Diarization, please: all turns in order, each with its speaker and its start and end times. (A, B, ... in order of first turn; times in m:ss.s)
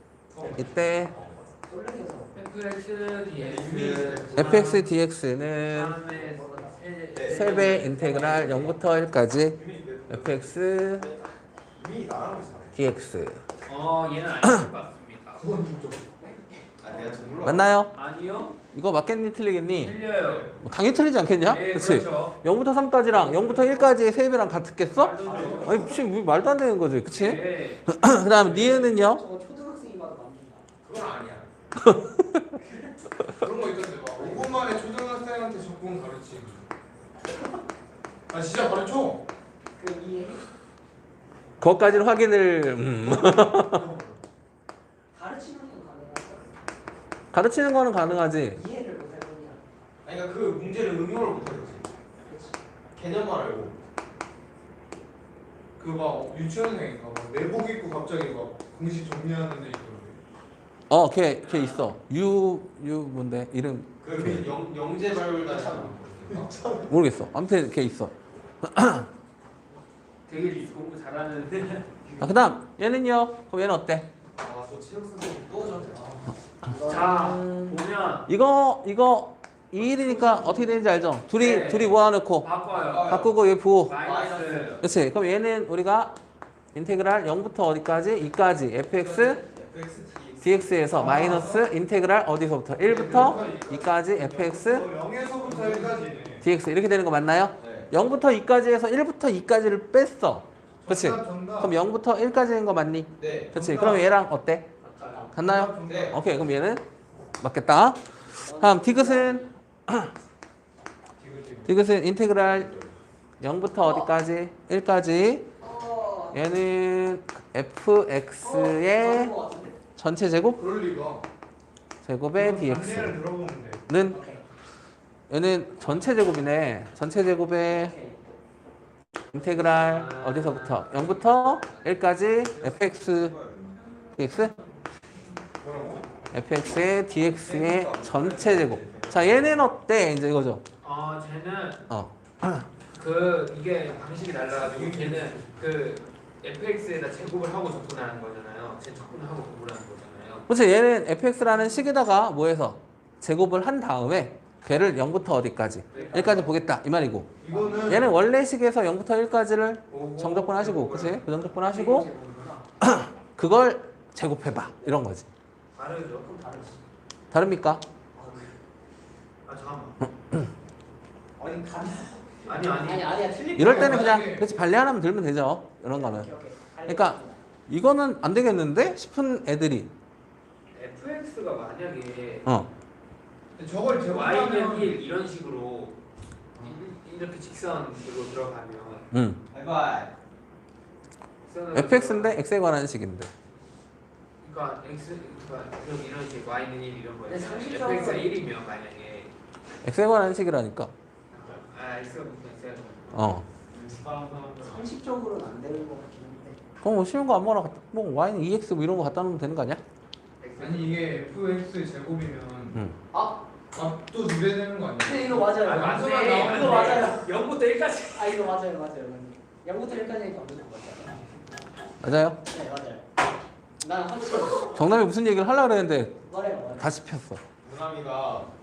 0:00.3-0:00.7 A
0:00.6-0:01.1 B
0:00.6-0:01.5 C
0:01.7-0:02.4 D
0:02.3-0:04.9 E
0:03.4-0:04.6 C
0:04.4-0:06.0 B
0:05.7-0:08.8 E
0:06.1-0:06.8 D
0:07.1-0:07.6 C
0:07.2-0:11.1 B
0:07.6-0:08.4 D
0:09.6-0:12.8 C
0:12.8-0:13.4 B
0:13.7-0:15.4 E
0:15.4-0:16.0 A
0:16.2-0:17.3 D
0:16.8-0:17.7 C
0:17.4-0:17.9 B
0:17.9-0:18.6 E
0:18.7-0:20.0 B
0:19.8-0:20.5 E
0:20.1-0:20.6 C
0:20.6-0:29.2 B
0:21.4-0:22.4 E
0:23.1-0:24.0 E
0:24.9-0:26.0 C
0:25.2-0:26.0 D
0:25.2-0:25.7 A
0:27.1-0:28.9 E
0:28.5-0:30.7 D
0:30.9-0:31.5 A
0:30.9-0:31.5 C
0:31.8-0:32.5 B
0:32.6-0:32.9 D
0:33.4-0:36.7 A
0:34.2-0:34.6 D
0:38.3-0:39.2 A
0:39.8-0:40.4 D
0:41.6-0:43.9 B
0:43.0-0:44.2 C
0:45.1-0:46.6 D
0:47.3-0:48.6 B
0:48.5-0:49.6 D
0:50.0-0:51.9 C
0:52.2-0:52.6 D
0:53.0-0:53.8 C
0:55.8-1:00.2 A
1:00.9-1:04.5 B
1:01.4-1:01.9 E
1:04.0-1:06.9 C
1:05.5-1:06.0 D
1:06.3-1:06.9 A
1:06.9-1:09.1 B
1:10.3-1:12.0 E
1:12.2-1:14.1 B
1:14.4-1:16.3 C
1:15.7-1:16.2 A
1:16.7-1:22.5 B
1:16.7-1:17.1 D
1:16.8-1:18.3 E
1:19.8-1:20.7 A
1:21.4-1:23.3 E
1:22.7-1:23.3 C
1:23.0-1:24.0 B
1:23.9-1:24.8 E
1:24.0-1:24.8 C
1:24.8-1:26.2 B
1:26.7-1:29.4 B
1:29.4-1:30.8 C
1:30.4-1:34.9 B
1:30.9-1:31.6 A
1:32.8-1:36.5 A
1:35.5-1:36.0 E
1:36.4-1:44.7 B
1:37.6-1:37.9 C
1:40.8-1:41.8 A
1:43.2-1:43.6 C
1:43.5-1:44.1 A
1:44.8-1:45.3 E
1:45.3-1:46.2 A
1:45.4-1:46.8 B
1:45.8-1:46.2 C
1:47.4-1:50.1 B
1:48.3-1:49.5 D
1:51.2-1:51.7 A
1:51.7-1:52.7 B
1:52.4-1:52.9 C
1:53.4-1:55.5 B
1:53.8-1:54.1 D
1:55.6-1:56.5 D
1:56.3-1:59.3 B
1:58.4-1:59.8 D
2:00.0-2:00.6 B
2:00.6-2:01.2 A
2:02.0-2:03.2 B
2:02.4-2:03.8 A
2:03.9-2:04.2 B
2:04.1-2:04.4 D
2:05.3-2:08.0 B
2:07.7-2:08.2 D
2:09.3-2:13.4 B
2:09.6-2:12.0 E
2:12.4-2:13.8 C
2:14.2-2:14.5 B
2:15.6-2:16.1 A
2:16.3-2:20.6 B
2:17.3-2:19.7 C
2:20.8-2:21.8 E
2:21.9-2:22.7 B
2:22.9-2:30.5 E
2:24.6-2:25.5 C
2:30.5-2:42.1 B
2:35.9-2:36.5 E
2:35.9-2:36.4 D
2:37.4-2:38.1 A
2:37.5-2:38.1 D
2:39.9-2:41.2 E
2:41.7-2:42.6 D
2:41.8-2:42.5 E
2:42.8-2:45.3 B
2:45.8-2:46.4 E
2:46.4-2:46.8 D
2:47.3-2:47.8 B
2:48.2-2:48.5 D
2:49.4-2:50.0 E
2:50.1-2:50.5 B
2:51.4-2:54.2 D
2:52.4-2:53.2 E
2:53.6-2:56.3 B
2:53.6-2:54.5 A
2:55.9-2:57.4 D
2:56.9-2:59.9 B
3:00.7-3:02.5 E
3:03.6-3:05.0 A
3:04.0-3:06.0 E
3:06.6-3:09.1 E
3:09.1-3:09.4 B
3:09.5-3:10.1 C
3:11.4-3:12.4 E
3:11.7-3:13.3 B
3:14.4-3:19.3 E
3:17.3-3:18.3 D
3:19.8-3:20.9 B
3:21.3-3:23.3 E
3:23.1-3:23.5 B
3:23.7-3:24.8 C
3:24.6-3:26.6 D
3:26.8-3:29.8 B
3:30.4-3:31.3 E
3:30.6-3:32.8 A
3:33.1-3:33.4 D
3:33.7-3:37.1 A
3:35.0-3:37.3 D
3:35.5-3:38.4 E
3:38.2-3:41.2 D
3:42.0-3:42.4 B
3:42.5-3:43.1 D
3:43.8-3:44.9 D
3:44.8-3:46.2 B
3:46.3-3:46.9 D
3:46.8-3:47.4 B
3:47.6-3:48.5 C